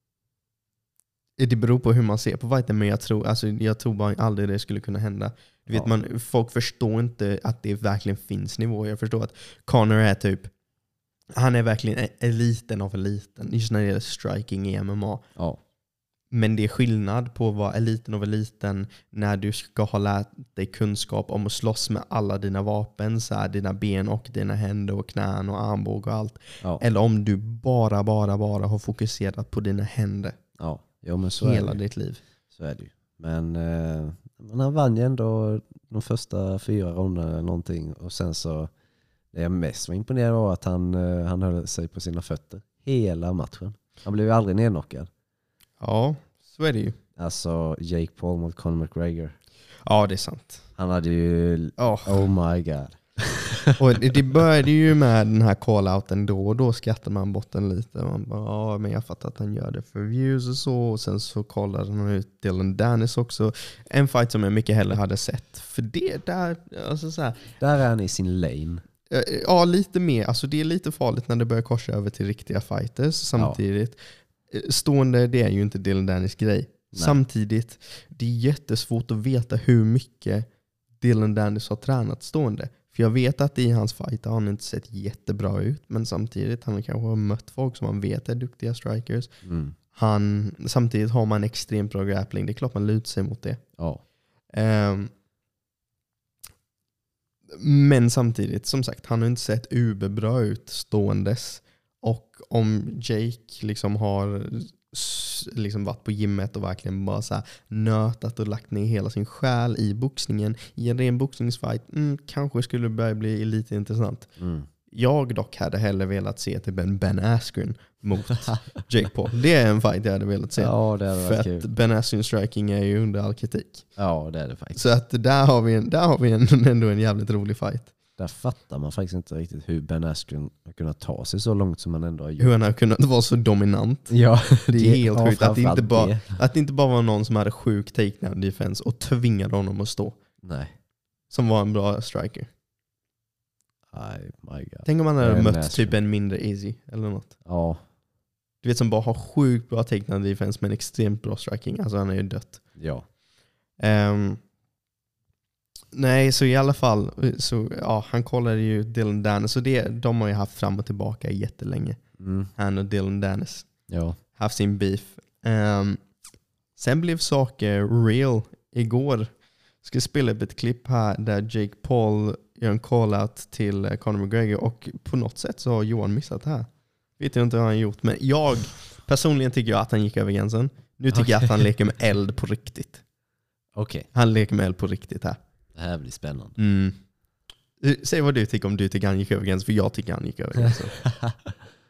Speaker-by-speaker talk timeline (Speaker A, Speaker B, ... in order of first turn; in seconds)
Speaker A: 1.4-10.5, 11.3-15.2, 16.3-30.4, 31.4-32.2, 45.8-47.0, 49.9-50.6, 51.8-52.2, 53.8-67.5, 69.1-74.0, 74.5-80.5, 81.0-89.3, 89.9-93.6, 94.5-95.1, 97.5-114.3, 114.9-123.9, 124.7-127.9, 132.4-134.1, 134.7-140.2, 141.3-142.5, 144.8-147.3, 148.6-152.6, 153.8-154.4, 155.9-162.0, 162.6-163.7, 164.3-166.0, 166.8-169.3, 169.8-183.0, 184.1-185.4, 186.6-186.9, 187.8-190.9
Speaker B: 30.6-31.8, 32.5-38.7, 39.3-45.1, 47.2-49.4, 50.8-53.8, 67.6-68.8, 89.4-89.7, 114.4-114.7, 120.6-121.7, 124.0-124.8, 128.2-132.5, 134.1-136.4, 140.4-140.7, 143.9-146.0, 147.4-147.8, 152.8-153.0, 162.2-162.5, 163.9-164.2, 181.1-181.4, 183.7-184.1, 185.7-186.6, 191.1-191.3